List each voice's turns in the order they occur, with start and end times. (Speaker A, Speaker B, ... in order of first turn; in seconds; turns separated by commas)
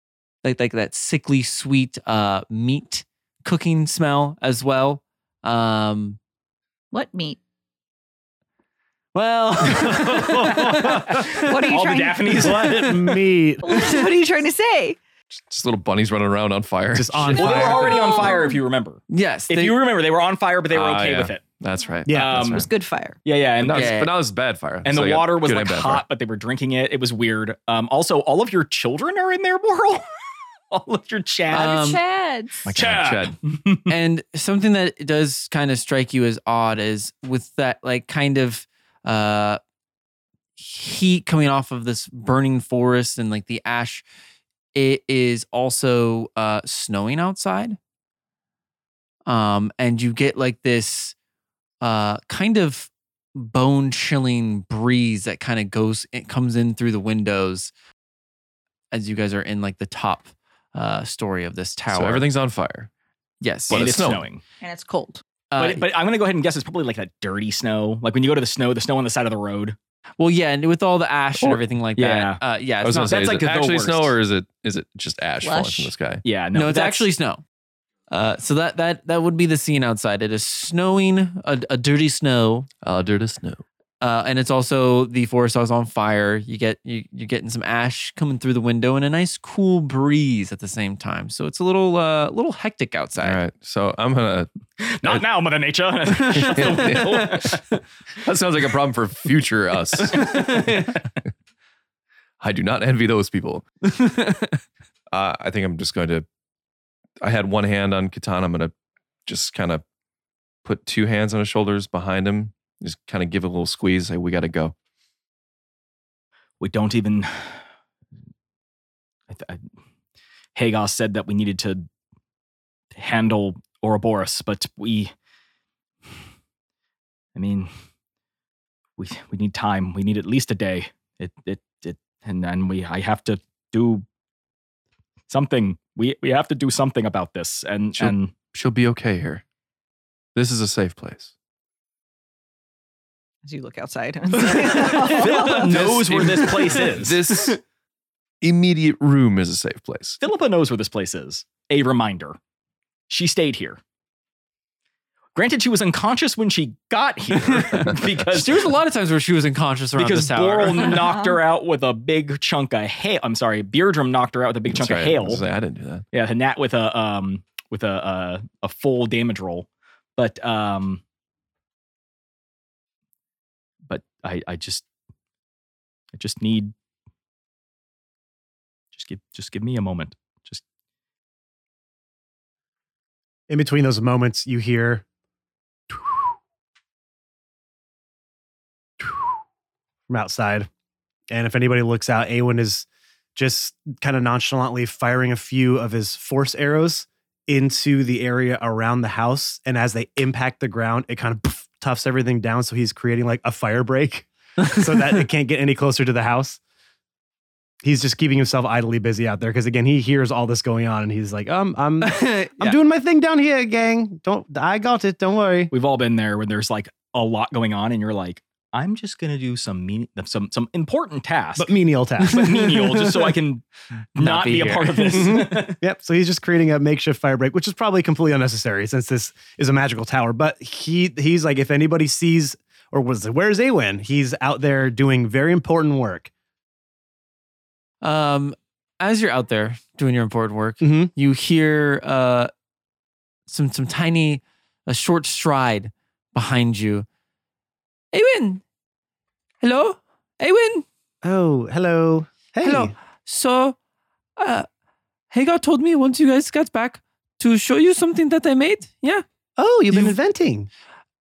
Speaker A: 0.4-6.2, Speaker B: 6.9-7.4, Speaker A: 9.1-11.8, Speaker C: 10.0-10.9, Speaker B: 10.6-12.7, Speaker D: 10.8-13.2, Speaker C: 12.3-14.1, Speaker B: 13.6-15.0, Speaker E: 15.4-17.7, Speaker C: 16.9-18.1, Speaker D: 17.3-21.4, Speaker B: 17.5-18.6, Speaker A: 19.1-19.8, Speaker E: 20.7-22.7, Speaker C: 22.1-22.4, Speaker D: 22.1-22.6, Speaker B: 22.5-23.2, Speaker D: 23.2-24.1, Speaker E: 23.6-26.0, Speaker A: 23.7-24.1, Speaker D: 24.8-30.0, Speaker D: 30.7-31.9, Speaker A: 31.5-32.0, Speaker B: 31.5-32.7, Speaker D: 32.6-33.9, Speaker E: 32.7-33.4, Speaker A: 33.9-39.6, Speaker A: 40.6-44.0, Speaker A: 44.7-47.8, Speaker A: 49.3-51.1, Speaker A: 51.8-57.7, Speaker A: 58.9-62.3, Speaker E: 61.9-62.9, Speaker A: 63.4-63.9, Speaker E: 63.7-64.2, Speaker D: 63.7-64.4, Speaker B: 64.6-65.2, Speaker A: 65.5-65.8, Speaker D: 65.6-69.8, Speaker A: 70.2-73.2, Speaker D: 71.4-72.4, Speaker E: 72.8-76.2, Speaker D: 73.0-74.2, Speaker B: 75.4-75.9, Speaker D: 76.2-77.1, Speaker A: 76.5-77.4, Speaker A: 78.1-82.7, Speaker E: 82.8-83.6, Speaker A: 84.0-93.4, Speaker E: 93.2-94.5, Speaker D: 94.8-97.6, Speaker E: 96.2-97.6, Speaker A: 96.3-97.4, Speaker E: 98.2-100.9, Speaker A: 100.0-101.0, Speaker E: 102.4-103.6, Speaker A: 103.8-104.6, Speaker E: 105.1-106.2, Speaker E: 107.2-108.7, Speaker E: 109.2-109.8, Speaker E: 110.6-114.7, Speaker D: 116.6-117.6, Speaker D: 119.3-119.6, Speaker D: 120.5-121.8, Speaker D: 122.9-125.1, Speaker D: 127.3-127.7, Speaker D: 129.0-134.0, Speaker D: 135.3-138.3, Speaker E: 138.0-139.4, Speaker E: 140.3-141.3, Speaker B: 143.4-145.9, Speaker A: 144.6-146.7, Speaker E: 144.9-147.6, Speaker D: 145.2-147.5, Speaker E: 148.4-150.2, Speaker D: 150.2-152.4, Speaker D: 153.1-153.8, Speaker D: 155.3-158.7, Speaker A: 158.2-161.0, Speaker D: 160.0-165.4, Speaker B: 160.8-161.4, Speaker E: 164.7-166.0, Speaker D: 166.1-171.0, Speaker D: 173.9-174.8, Speaker D: 176.1-176.7, Speaker D: 178.9-180.6, Speaker C: 183.5-185.0, Speaker C: 185.9-186.3, Speaker C: 189.0-189.3, Speaker C: 190.1-190.7, Speaker C: 191.3-206.6, Speaker C: 207.8-215.7, Speaker A: 212.0-212.8, Speaker D: 215.7-223.6, Speaker C: 221.6-222.6, Speaker A: 222.6-223.3, Speaker D: 224.2-225.8, Speaker A: 224.2-225.4, Speaker C: 225.1-236.3, Speaker A: 238.0-242.5, Speaker C: 240.8-241.1, Speaker A: 243.5-247.0, Speaker A: 248.1-248.6, Speaker A: 249.6-250.8, Speaker C: 251.2-252.9, Speaker A: 252.6-253.8, Speaker A: 254.4-254.7, Speaker A: 255.3-259.2, Speaker C: 259.6-260.7, Speaker A: 259.9-260.1